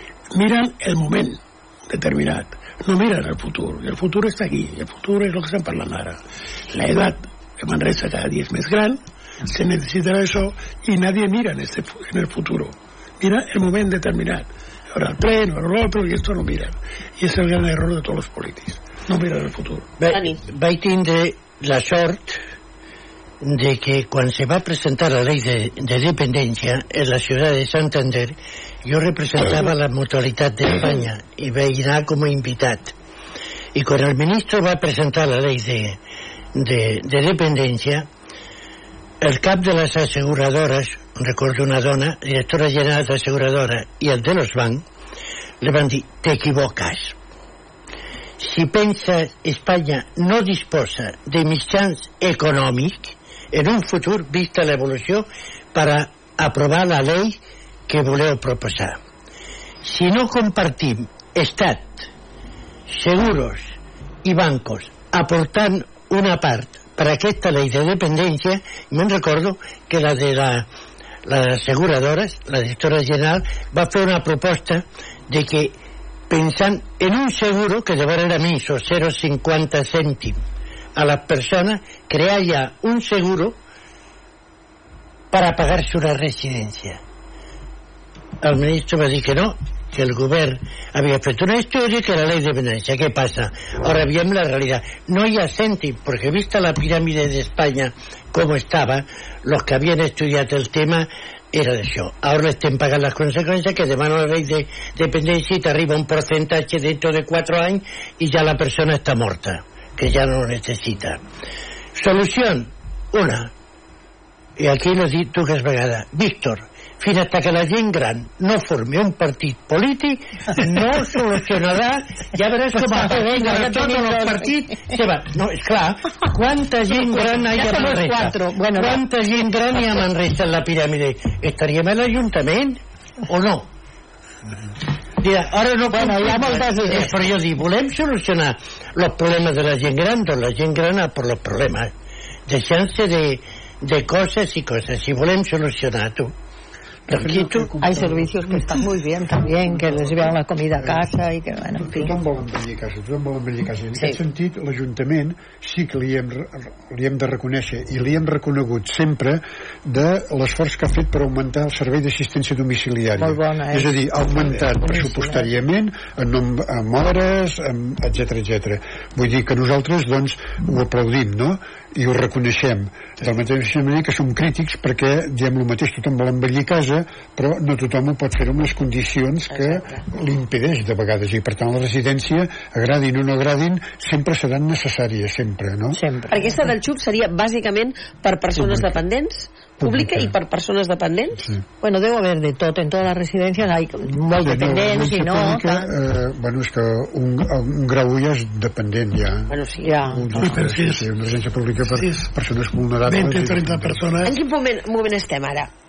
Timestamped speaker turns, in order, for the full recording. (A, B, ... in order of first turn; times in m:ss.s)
0:00.3-0:19.9 A
0:20.0-0:22.4 B
0:20.1-0:20.4 C
0:23.4-0:32.9 B
0:33.7-0:36.0 B
0:36.5-0:38.1 B
0:39.2-0:44.8 B
0:45.6-0:47.2 B
0:48.4-0:59.0 B
0:59.8-1:02.1 B
1:02.9-1:10.7 B
1:11.2-1:15.7 B
1:16.3-1:20.4 B
1:21.0-1:23.6 B
1:25.3-1:27.0 B
1:28.4-1:51.2 B
1:51.9-1:53.5 B
1:54.6-2:13.7 B
2:02.7-2:05.0 D
2:06.9-2:09.0 D
2:15.2-2:21.9 B
2:15.9-2:17.2 D
2:22.5-2:26.3 B
2:27.1-2:29.0 E
2:27.1-2:27.7 B
2:27.8-2:32.1 D
2:29.6-2:31.0 E
2:31.8-3:06.0 E
2:43.2-2:45.5 D
2:59.5-3:00.0 C
3:06.0-3:06.6 D
3:06.3-3:11.5 C
3:08.5-3:09.0 E
3:09.8-3:10.3 E
3:11.4-3:11.6 E
3:11.8-3:15.9 D
3:14.4-3:19.5 E
3:19.5-3:20.0 C
3:19.8-3:20.2 D
3:20.1-3:24.0 E
3:20.4-3:21.1 A
3:21.9-3:22.3 A
3:23.0-3:24.4 A
3:24.2-3:25.7 C